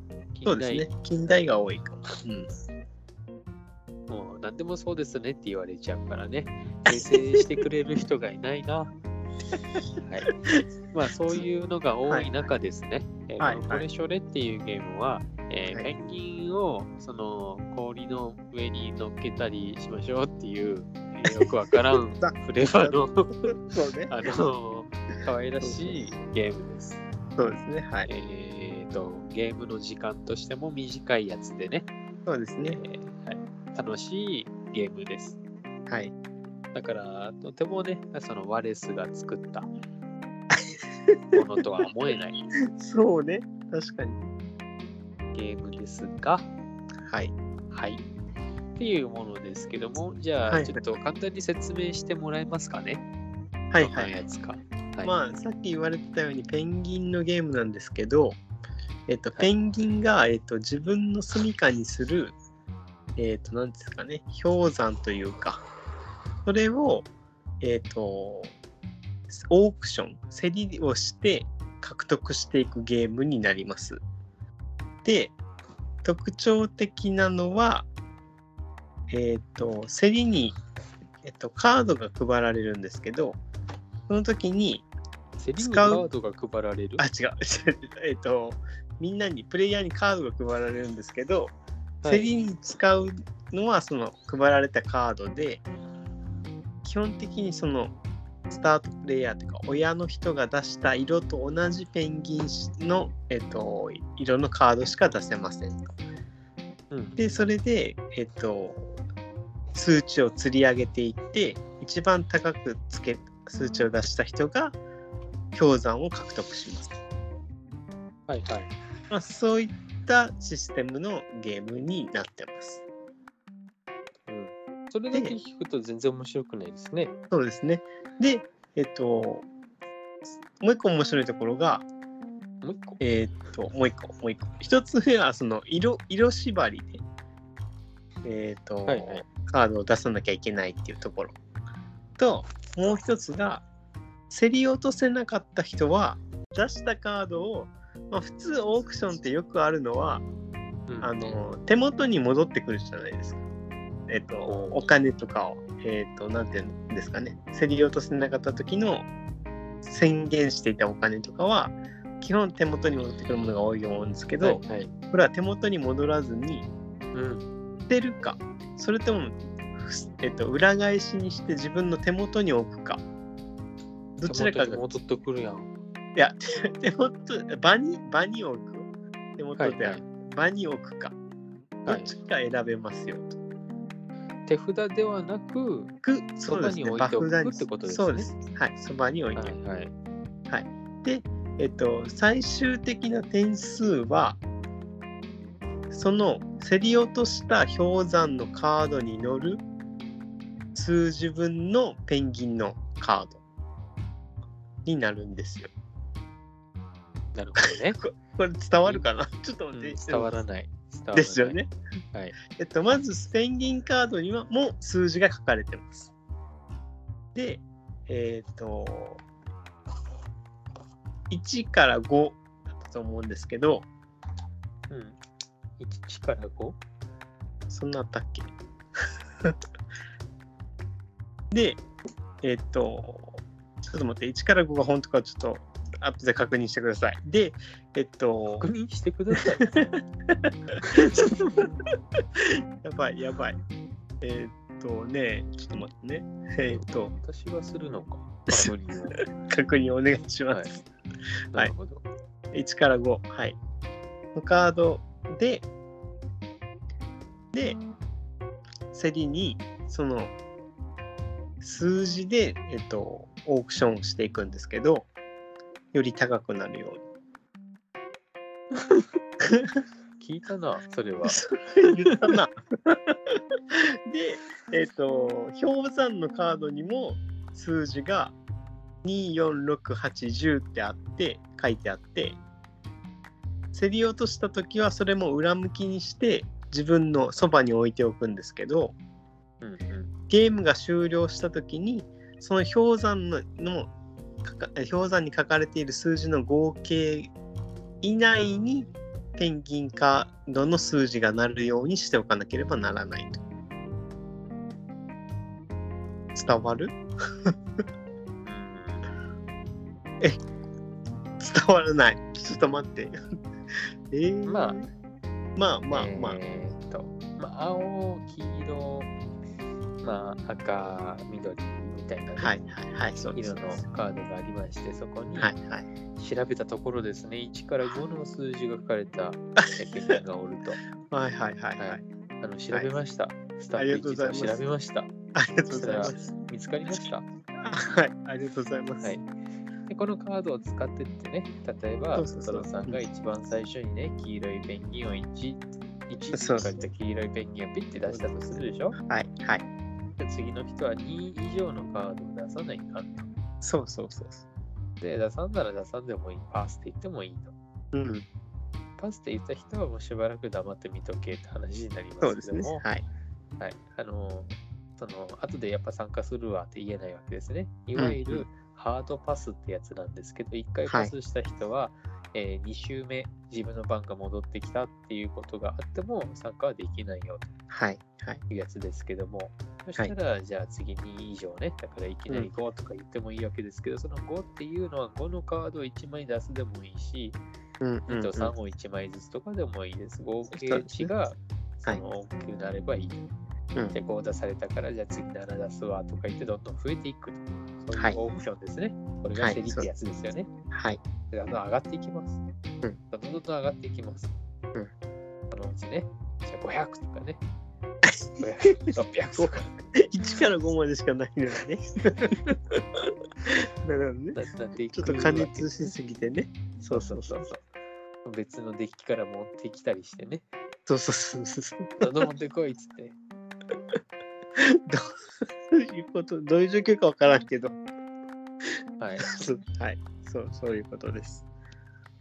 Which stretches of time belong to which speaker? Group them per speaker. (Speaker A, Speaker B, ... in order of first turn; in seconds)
Speaker A: 0.3-0.9, 4.1-8.9, 10.0-10.4, 10.9-23.6, 24.1-27.0, 28.1-31.9, 32.6-35.4, 36.7-39.7, 41.3-42.4, 45.3-46.5, 47.7-48.0, 48.8-53.0, 53.8-55.1, 85.4-87.0, 92.0-92.3, 106.9-107.2, 118.3-118.7, 124.3-127.1, 132.6-133.0, 138.9-139.2, 150.9-151.5, 154.4-154.8, 164.4-164.9, 167.1-167.5, 174.2-175.7, 179.6-180.0, 181.8-182.1, 184.5-185.9, 186.5-188.3, 189.3-189.9, 207.3-208.0, 209.7-211.6, 224.9-225.2, 225.8-226.8, 238.6-239.7, 240.8-241.7, 246.7-249.2, 251.5-252.0, 270.2-271.4, 289.6-290.1, 298.4-298.6, 308.4-309.0, 314.4-314.8, 315.9-319.1, 320.0-322.5, 323.3-325.5, 326.1-330.8, 331.8-335.1, 335.7-337.3, 339.0-339.3, 339.9-349.0, 350.2-353.3, 355.0-357.5, 359.0-362.8, 363.6-377.5, 378.5-387.4, 388.1-393.3, 393.9-400.5, 401.3-402.4, 403.1-404.3, 405.5-407.4, 408.4-409.8, 414.3-415.9, 416.9-417.6, 418.2-420.4, 422.0-423.2, 429.0-429.3
Speaker B: 0.5-2.5, 13.4-13.8, 21.2-23.0, 23.5-24.1, 25.6-26.0, 27.4-28.1, 32.2-32.8, 35.9-36.1, 40.5-41.4, 42.6-44.3, 47.1-47.3, 50.5-50.9, 53.7-54.2, 55.0-58.4, 59.1-62.4, 63.1-65.6, 66.4-67.1, 67.6-68.5, 69.3-74.0, 75.0-75.3, 76.0-77.9, 79.1-80.5, 81.2-83.4, 84.1-84.9, 85.6-86.0, 87.0-91.5, 92.0-95.6, 96.8-97.9, 98.5-105.8, 107.2-108.9, 109.7-114.8, 115.5-116.9, 119.1-122.8, 127.3-129.4, 130.6-131.8, 133.0-137.0, 138.2-141.3, 142.2-143.7, 144.3-150.2, 151.0-153.4, 154.1-159.1, 159.8-166.7, 167.9-173.0, 174.2-174.9, 176.1-181.1, 181.8-183.4, 186.0-189.5, 190.5-194.4, 195.9-199.6, 200.7-203.4, 204.8-205.7, 207.6-210.3, 211.1-211.7, 212.5-216.1, 217.3-219.2, 221.3-223.9, 227.7-228.5, 231.5-231.8, 232.4-238.7, 240.4-241.7, 242.4-243.6, 244.2-247.1, 249.3-250.8, 252.5-253.6, 254.3-255.7, 257.5-257.8, 258.9-260.3, 261.6-265.1, 265.9-267.0, 271.3-273.3, 274.1-278.3, 279.0-282.4, 283.7-288.9, 290.3-293.9, 294.4-297.3, 298.0-303.4, 306.3-307.5, 311.4-313.1, 314.1-314.9, 315.6-316.4, 322.4-323.8, 325.4-325.9, 329.6-330.1, 331.1-332.0, 333.8-334.6, 335.3-336.3, 337.6-339.1, 342.1-343.0, 346.3-346.8, 349.0-349.6, 353.6-354.4, 357.9-358.2, 362.2-363.0, 368.0-368.4, 370.9-371.1, 377.7-378.4, 387.8-388.5, 390.5-391.1, 399.4-399.9, 400.7-401.0, 408.1-408.4, 409.4-412.8, 413.4-414.4, 414.9-417.4, 420.9-422.1, 424.6-425.1, 425.7-427.8, 429.2-431.4